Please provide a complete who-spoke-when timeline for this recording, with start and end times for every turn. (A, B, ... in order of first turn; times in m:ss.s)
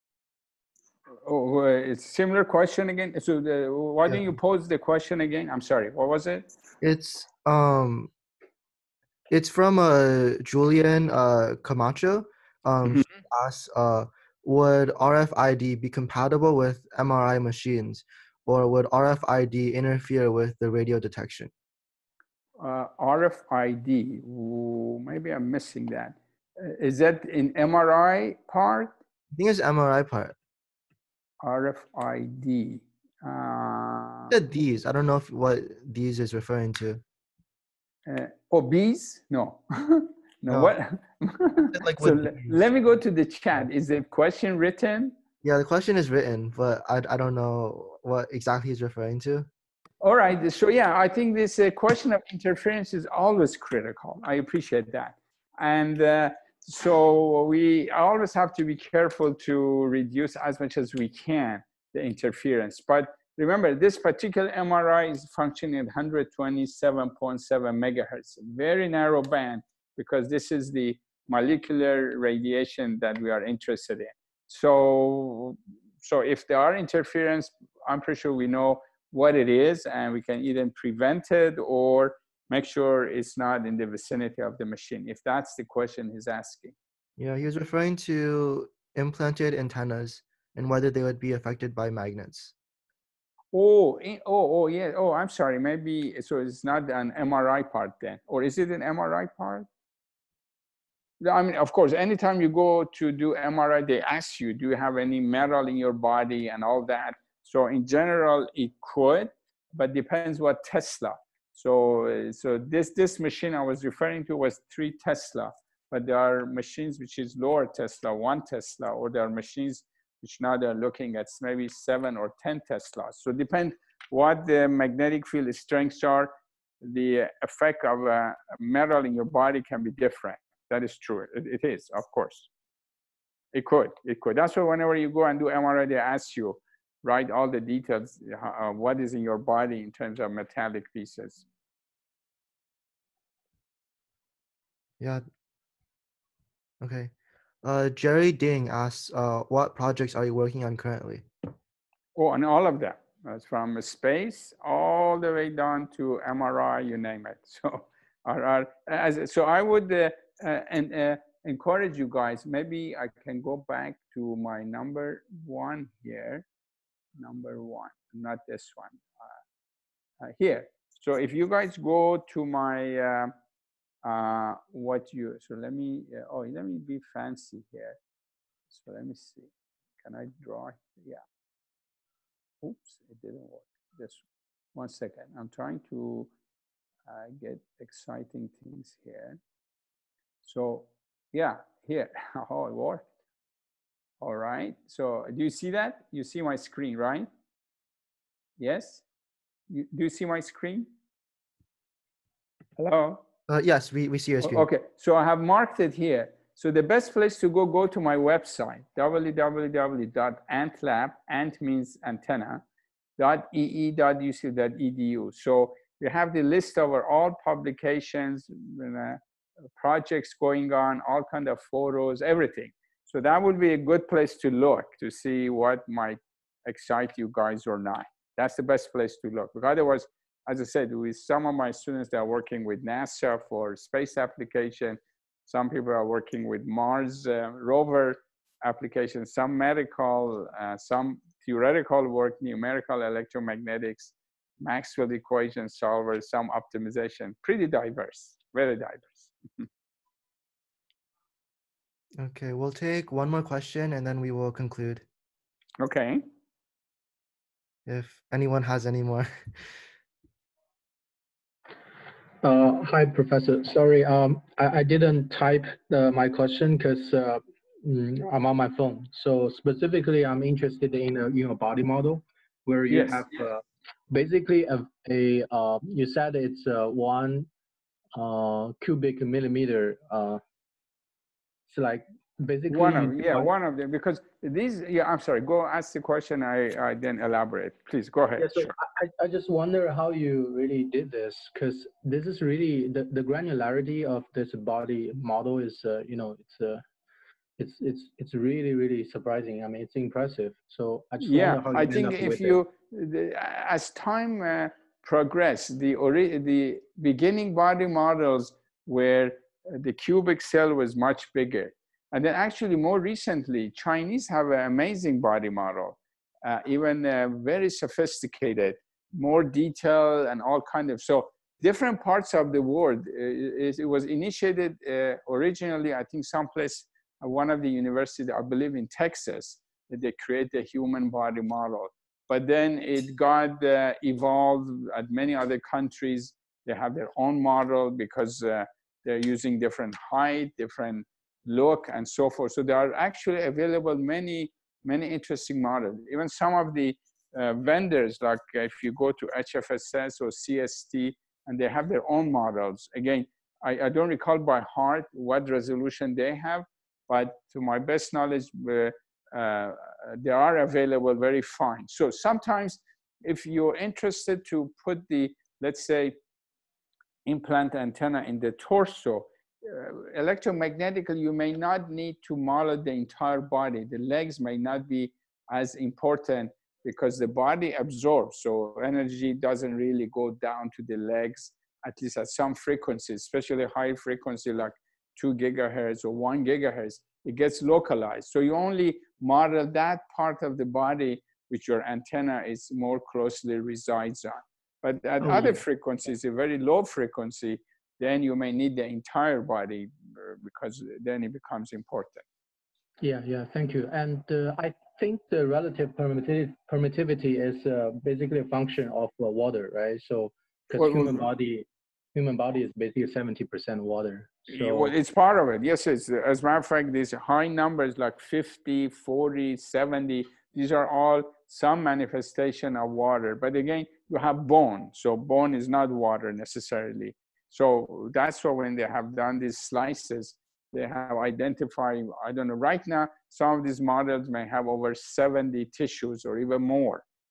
0:01.2-0:06.5 A
0:06.8-0:08.1 B
0:09.3-0:21.5 B
0:12.9-0:13.2 A
0:22.6-0:28.9 A
0:29.3-0:30.3 B
0:31.4-0:34.3 A
0:34.3-0:37.0 B
0:38.0-0:45.2 A
0:40.5-0:40.7 B
0:41.7-0:42.6 B
0:45.4-0:49.5 B
0:50.0-1:26.7 A
1:27.2-1:32.5 B
1:33.5-1:39.7 A
1:41.2-2:12.5 A
2:13.5-2:21.4 A
2:26.8-2:27.1 B
2:27.6-2:31.3 B
2:32.1-2:46.4 A
2:47.2-2:49.3 A
2:50.2-2:53.3 A
2:54.0-2:58.0 A
2:58.7-3:01.2 A
3:02.6-3:04.2 A
3:04.7-3:06.3 A
3:07.0-3:09.4 A
3:10.4-3:13.0 A
3:14.2-3:17.3 A
3:18.6-3:19.0 A
3:19.7-3:20.9 A
3:22.8-3:23.2 A
3:23.5-3:24.7 B
3:24.4-3:32.6 A
3:33.2-3:39.2 A
3:39.8-4:09.6 A
4:12.2-4:15.0 B
4:15.8-4:16.2 A
4:17.8-4:19.5 B
4:22.4-4:37.5 C
4:32.9-4:33.3 A
4:38.1-4:40.4 C
4:41.7-4:43.5 C
4:42.7-4:48.7 A
4:48.4-4:56.8 C
4:57.6-5:02.6 C
5:01.2-6:06.2 A
6:07.2-6:42.2 A
6:35.2-6:35.6 C
6:43.0-6:54.9 C
6:50.8-6:51.2 A
6:54.5-7:17.0 A